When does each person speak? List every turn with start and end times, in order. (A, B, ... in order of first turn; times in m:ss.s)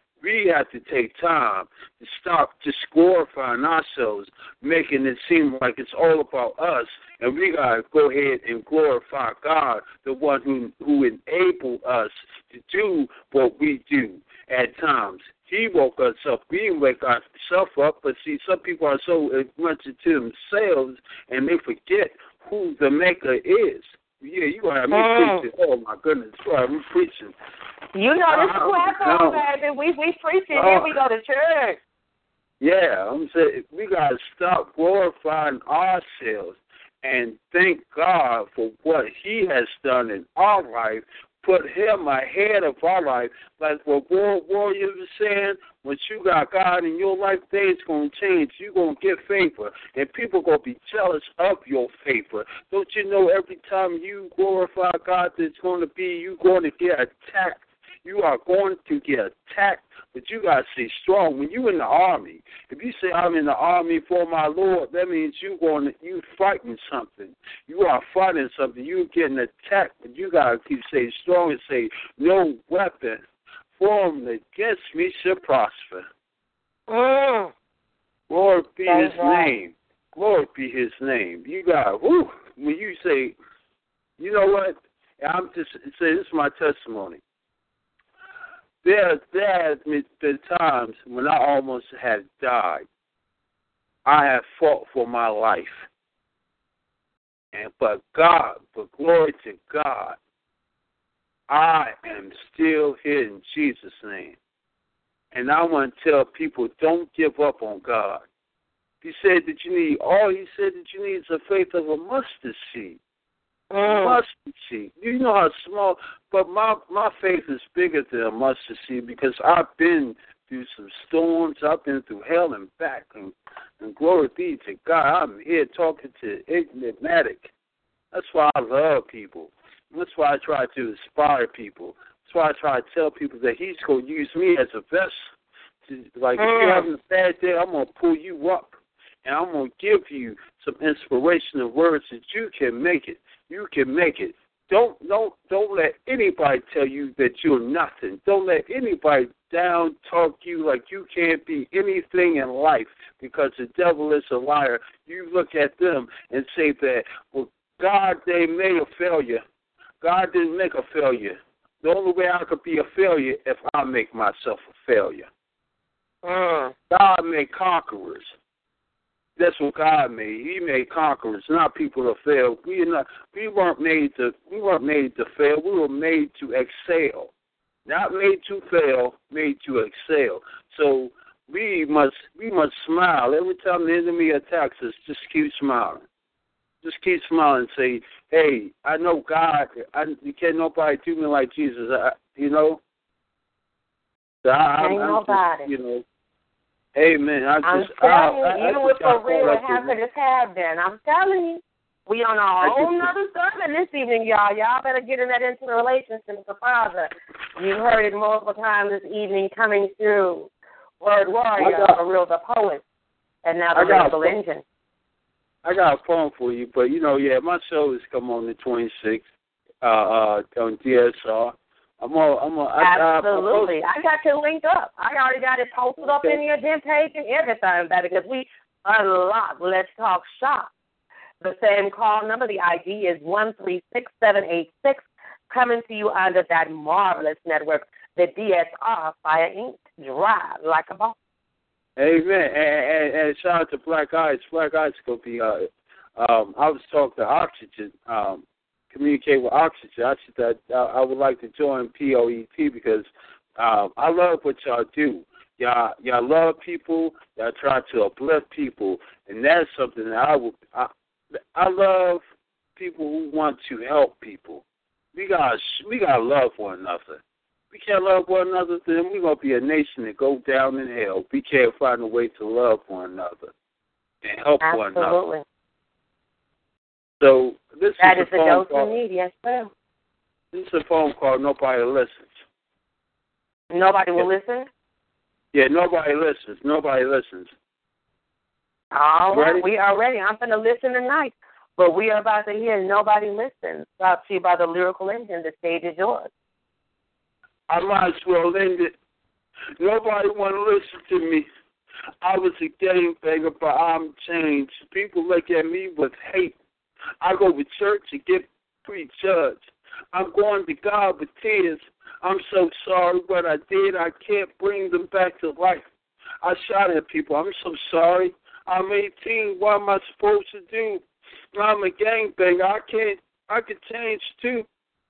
0:00.2-0:27.3 A
0:24.9-0:25.4 B
0:27.9-0:31.8 B
0:28.3-0:29.4 A
0:30.5-0:30.9 A
0:32.6-1:13.2 A
1:13.8-1:16.0 A
1:16.9-1:17.5 B
1:18.3-1:23.4 A
1:18.9-1:19.5 B
1:24.2-1:27.2 A
1:28.8-1:32.8 A
1:34.0-1:35.8 A
1:37.5-1:40.2 A
1:41.5-1:44.4 A
1:45.3-1:48.2 A
1:49.0-1:53.0 A
1:53.7-1:54.2 B
1:53.8-2:07.5 A
2:08.1-2:15.2 A
2:15.9-2:39.4 A
2:16.4-2:16.8 B
2:40.0-2:45.3 A
2:46.2-2:46.7 B
2:46.9-2:48.3 A
2:49.4-2:57.3 A
2:57.9-3:06.0 A
3:06.8-3:12.8 A
3:14.4-3:16.0 A
3:14.8-3:15.7 B
3:17.0-3:19.9 A
3:17.6-3:30.5 B
3:22.6-3:23.1 A
3:31.0-3:32.8 B
3:31.6-3:32.0 A
3:33.4-3:34.6 B
3:33.7-3:34.4 A
3:35.6-3:39.2 A
3:39.8-3:43.8 A
3:42.8-3:50.7 B
3:46.0-3:46.4 A
3:51.4-4:01.2 B
4:02.0-4:20.9 A
4:21.5-4:22.2 A
4:22.8-4:24.6 A
4:25.1-4:27.2 A
4:27.7-4:33.5 A
4:34.2-4:35.2 A
4:34.6-4:35.4 B
4:37.2-4:38.9 A
4:38.0-4:39.7 B
4:40.5-4:42.3 A
4:43.7-4:44.7 B
4:45.5-4:47.5 A
4:48.9-4:56.3 B
4:49.3-4:49.6 A
4:57.7-4:58.9 A
4:59.8-5:01.5 A
5:02.2-5:06.6 A
5:07.2-5:15.8 A
5:16.4-5:21.0 A
5:21.5-5:24.6 A